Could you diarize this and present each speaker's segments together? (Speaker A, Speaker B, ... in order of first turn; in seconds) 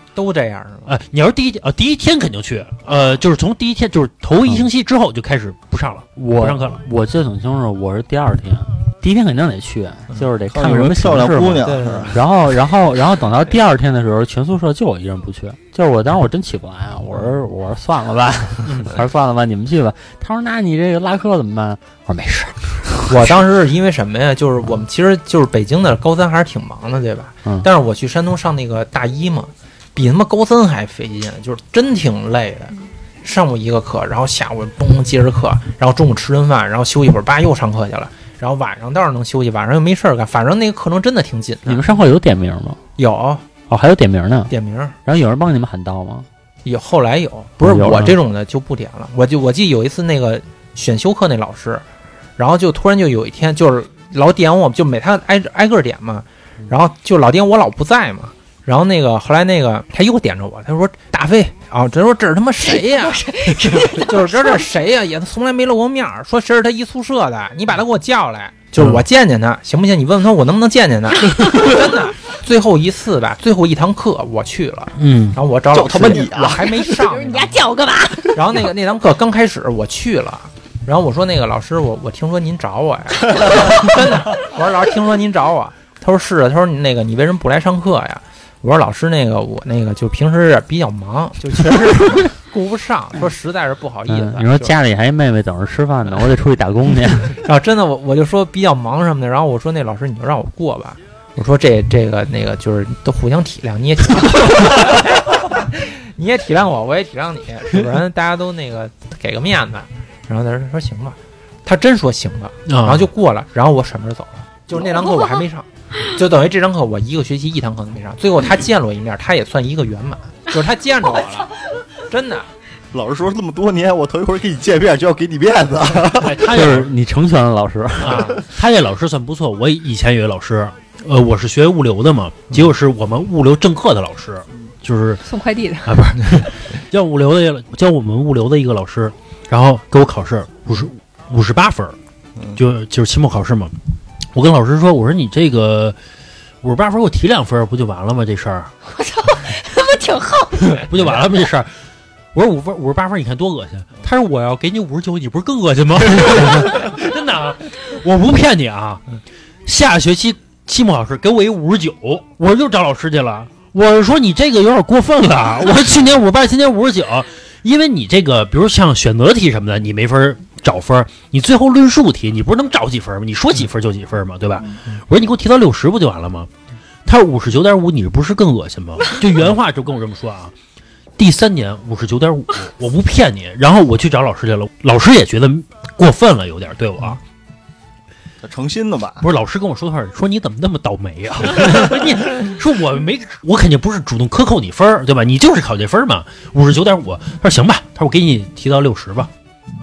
Speaker A: 0.2-0.9, 2.9-3.1, 11.6-12.1, 23.1-41.8, 43.0-43.5, 44.5-45.0, 46.6-51.9, 52.4-63.3, 63.8-77.7, 78.3-94.8, 97.4-121.5, 122.1-122.5
Speaker B: 0.9-6.8, 18.7-18.9, 68.8-69.0, 75.0-75.4, 112.7-113.1, 126.2-126.9, 128.0-135.2, 135.8-142.0, 142.6-143.7, 144.3-146.0, 146.6-148.7, 150.8-151.7, 152.3-159.0, 159.7-176.5, 177.1-180.5, 181.2-187.2, 189.2-199.3
Speaker C: 6.2-23.3, 41.7-42.8, 43.7-44.5, 45.0-46.3, 47.6-48.2, 94.1-97.4, 126.4-128.4
Speaker D: 10.5-12.2, 75.7-76.7, 83.4-83.7, 122.9-126.3, 188.4-189.3
Speaker E: 62.6-64.6, 76.2-78.5, 135.2-136.0, 148.9-150.9